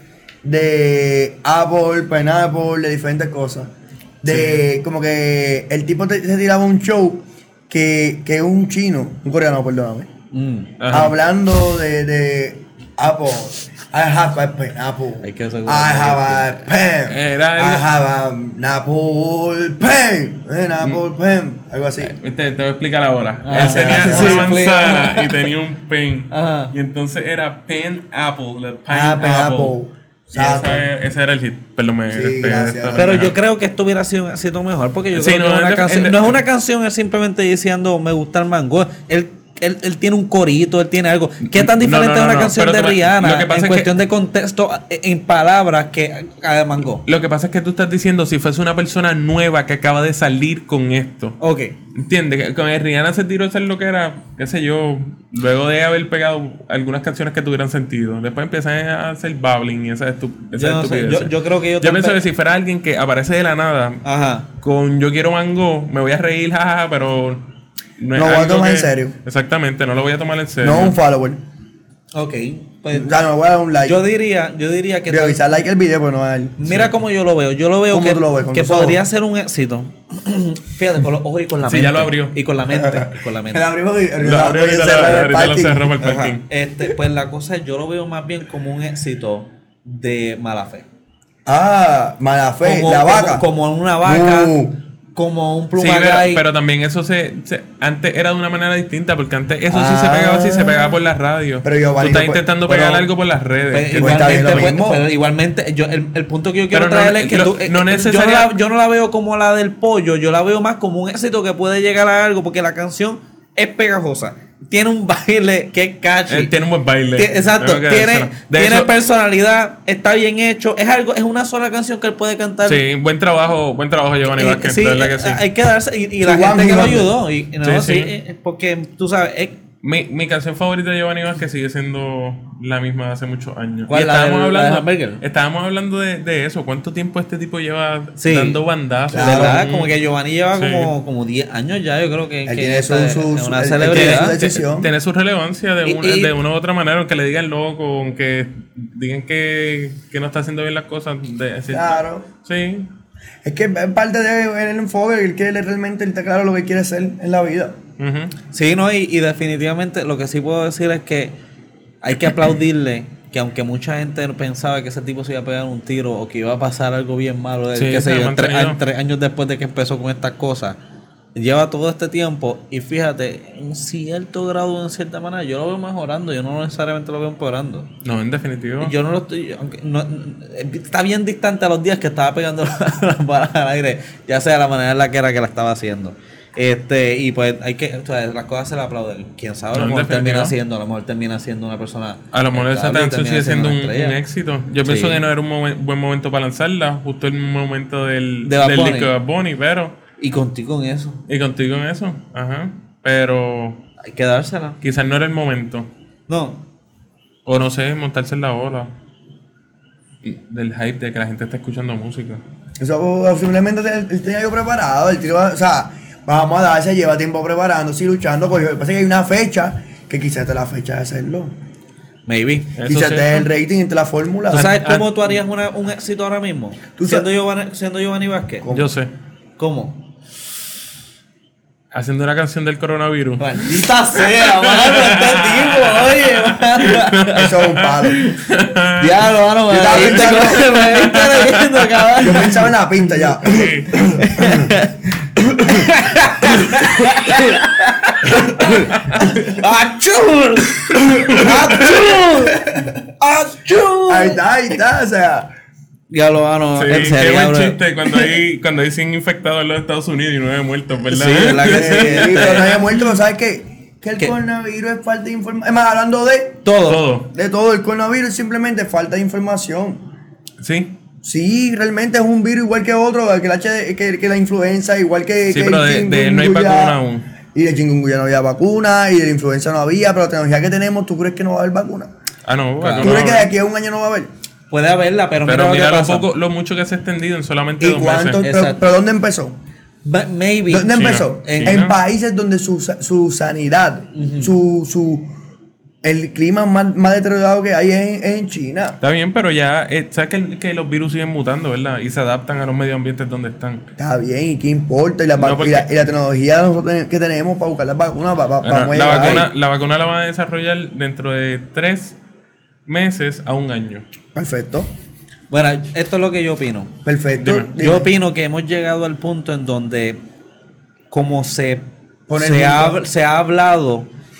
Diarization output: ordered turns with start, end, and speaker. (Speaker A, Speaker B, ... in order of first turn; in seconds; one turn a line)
Speaker A: 0.4-10.1
Speaker B: 4.2-4.6
Speaker C: 10.3-10.7
Speaker B: 10.8-11.1
Speaker A: 10.9-22.1
Speaker C: 15.2-16.6
Speaker B: 17.1-17.9
Speaker B: 22.0-29.7
Speaker C: 23.4-25.5
Speaker A: 23.5-24.6
Speaker C: 26.3-26.7
Speaker A: 28.9-30.9
Speaker B: 30.3-33.3
Speaker A: 32.1-33.3
Speaker C: 32.9-47.0
Speaker B: 35.1-36.4
Speaker B: 41.5-44.0
Speaker B: 47.0-51.4
Speaker C: 51.4-51.7
Speaker B: 51.9-64.0
Speaker C: 60.5-62.2
Speaker C: 64.0-64.5
Speaker B: 64.6-67.5
Speaker B: 68.0-71.0
Speaker A: 68.1-69.1
Speaker A: 70.6-71.4
Speaker C: 72.1-73.1
Speaker A: 72.9-74.0
Speaker C: 73.8-75.4
Speaker A: 75.1-76.6
Speaker C: 76.6-83.6
Speaker B: 76.6-77.0
Speaker A: 77.9-79.0
Speaker B: 81.6-82.4
Speaker A: 82.7-86.0
Speaker B: 84.2-86.4
Speaker C: 86.0-90.8
Speaker A: 91.5-93.4
Speaker C: 92.6-94.6
Speaker A: 94.0-94.8
Speaker C: 95.1-96.4
Speaker B: 95.8-104.7
Speaker A: 99.7-101.0
Speaker A: 101.6-103.1
Speaker C: 103.7-116.5
Speaker A: 104.0-105.0
Speaker B: 106.7-108.5
Speaker B: 116.3-118.9
Speaker C: 117.2-122.8
Speaker B: 122.6-125.4
Speaker C: 124.2-129.6
Speaker A: 126.2-127.1
Speaker B: 127.6-128.1
Speaker B: 129.8-139.9
Speaker C: 133.9-135.2
Speaker C: 138.2-138.6
Speaker A: 139.1-139.6
Speaker C: 139.1-144.4
Speaker B: 140.5-140.9
Speaker A: 142.4-144.9
Speaker B: 143.9-152.9
Speaker C: 145.8-146.3
Speaker A: 151.7-152.3
Speaker A: 153.4-157.8
Speaker B: 158.0-158.3
Speaker C: 158.5-161.3
Speaker C: 162.0-170.8
Speaker B: 167.7-168.8
Speaker C: 171.3-177.9
Speaker B: 178.0-178.9
Speaker C: 178.8-194.2
Speaker B: 189.7-190.5
Speaker B: 192.3-200.0
Speaker C: 194.8-195.2
Speaker C: 198.4-199.1
Speaker C: 200.2-201.2
Speaker B: 201.3-203.8
Speaker C: 204.0-204.8
Speaker B: 204.8-205.9
Speaker C: 206.3-206.6
Speaker B: 207.4-208.9
Speaker B: 210.2-212.4
Speaker A: 212.8-221.5
Speaker C: 222.3-222.7
Speaker B: 222.8-223.4
Speaker A: 222.8-224.8
Speaker C: 224.5-228.7
Speaker B: 224.5-225.2
Speaker A: 227.0-227.3
Speaker A: 228.6-228.9
Speaker B: 228.7-229.1
Speaker C: 229.6-230.1
Speaker B: 231.9-239.3
Speaker C: 233.4-237.4
Speaker A: 237.3-238.4
Speaker C: 239.0-242.7
Speaker A: 239.7-240.9
Speaker B: 239.9-242.1
Speaker A: 242.2-244.7
Speaker B: 243.4-244.1
Speaker C: 244.1-254.4
Speaker A: 245.6-245.9
Speaker A: 246.7-247.1
Speaker B: 248.9-249.2
Speaker A: 254.1-255.5
Speaker C: 256.1-258.3
Speaker B: 256.8-262.9
Speaker C: 261.1-262.8
Speaker A: 261.6-266.6
Speaker C: 266.6-267.0
Speaker B: 266.9-267.3
Speaker A: 267.3-270.1
Speaker B: 270.6-270.9
Speaker A: 271.2-277.0
Speaker B: 275.5-277.3
Speaker A: 277.5-282.1
Speaker B: 282.4-283.5
Speaker C: 282.8-283.2
Speaker A: 283.0-284.3
Speaker C: 284.7-286.2
Speaker B: 285.4-288.4
Speaker A: 287.8-289.6
Speaker C: 288.4-288.8
Speaker C: 290.0-291.8
Speaker A: 290.7-295.3
Speaker B: 290.9-291.9
Speaker C: 294.1-294.5
Speaker A: 296.0-299.0
Speaker B: 299.0-303.9
Speaker A: 304.0-309.5
Speaker B: 305.4-305.9
Speaker B: 308.6-312.2
Speaker B: 312.9-314.0
Speaker A: 314.3-314.9
Speaker C: 315.5-316.9
Speaker A: 317.0-318.1
Speaker B: 317.4-317.7
Speaker C: 317.8-320.2
Speaker C: 321.1-324.1
Speaker A: 322.3-323.0